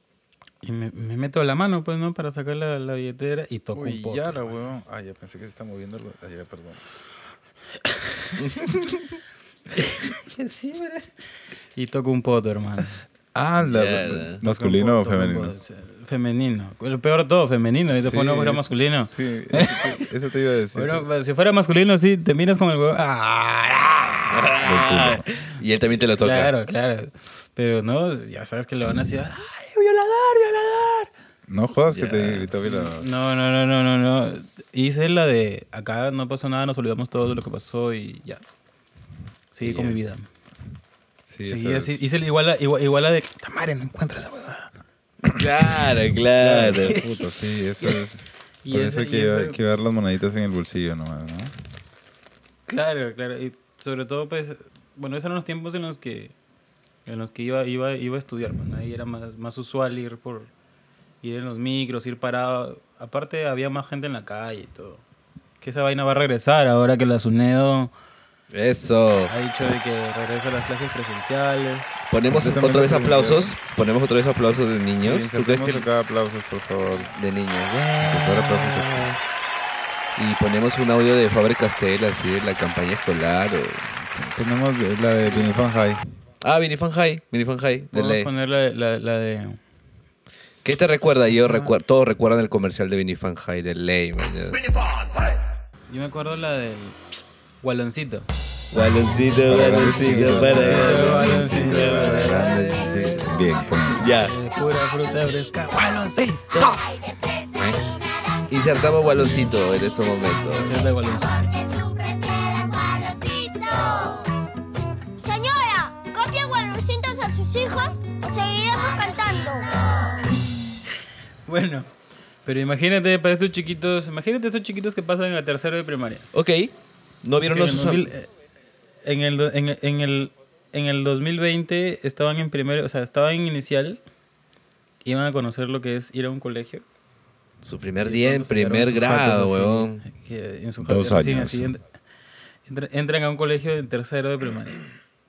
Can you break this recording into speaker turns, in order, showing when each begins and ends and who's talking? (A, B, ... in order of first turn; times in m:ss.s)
0:00.6-0:04.5 A
0:03.7-0:06.8 B
0:07.9-0:08.4 A
0:09.7-0:11.2 A
0:11.8-0:13.0 A
0:13.3-0:15.5 B
0:13.6-0:14.4 C
0:14.4-0:20.1 A
0:17.9-0:21.1 B
0:20.7-0:24.6 A
0:24.3-0:26.5 C
0:24.6-0:25.2 B
0:26.2-0:31.1 A
0:31.5-0:33.1 B
0:31.9-0:32.5 C
0:32.6-0:38.4 A
0:39.5-0:40.3 A
0:39.6-0:40.0 C
0:41.3-0:42.0 B
0:41.4-0:44.7 A
0:45.3-0:47.0 C
0:45.4-0:51.5 B
0:46.6-0:47.0 A
0:48.6-0:49.6 A
0:52.7-0:56.4 A
0:57.1-1:00.5 A
1:01.2-1:05.0 A
1:05.6-1:07.9 A
1:08.5-1:09.3 C
1:09.3-1:11.9 A
1:12.1-1:15.9 C
1:12.3-1:13.6 B
1:15.0-1:17.1 B
1:16.9-1:19.1 C
1:18.0-1:19.1 B
1:20.2-1:23.9 C
1:24.1-1:26.0 B
1:26.4-1:28.3 C
1:27.9-1:29.6 A
1:30.6-1:34.7 C
1:31.3-1:31.7 A
1:35.9-1:38.3 A
1:38.7-1:42.4 C
1:38.9-1:46.8 A
1:39.4-1:44.3 B
1:44.0-1:44.4 C
1:46.5-1:48.9 D
1:48.5-1:50.8 C
1:50.5-1:51.5 A
1:50.6-1:54.4 D
1:55.2-1:59.7 D
2:01.5-2:01.9 A
2:02.4-2:06.3 A
2:06.3-2:08.1 C
2:07.4-2:08.3 A
2:09.0-2:14.0 A
2:15.0-2:16.9 A
2:17.6-2:20.0 C
2:18.0-2:21.8 A
2:20.8-2:21.7 B
2:22.7-2:24.8 A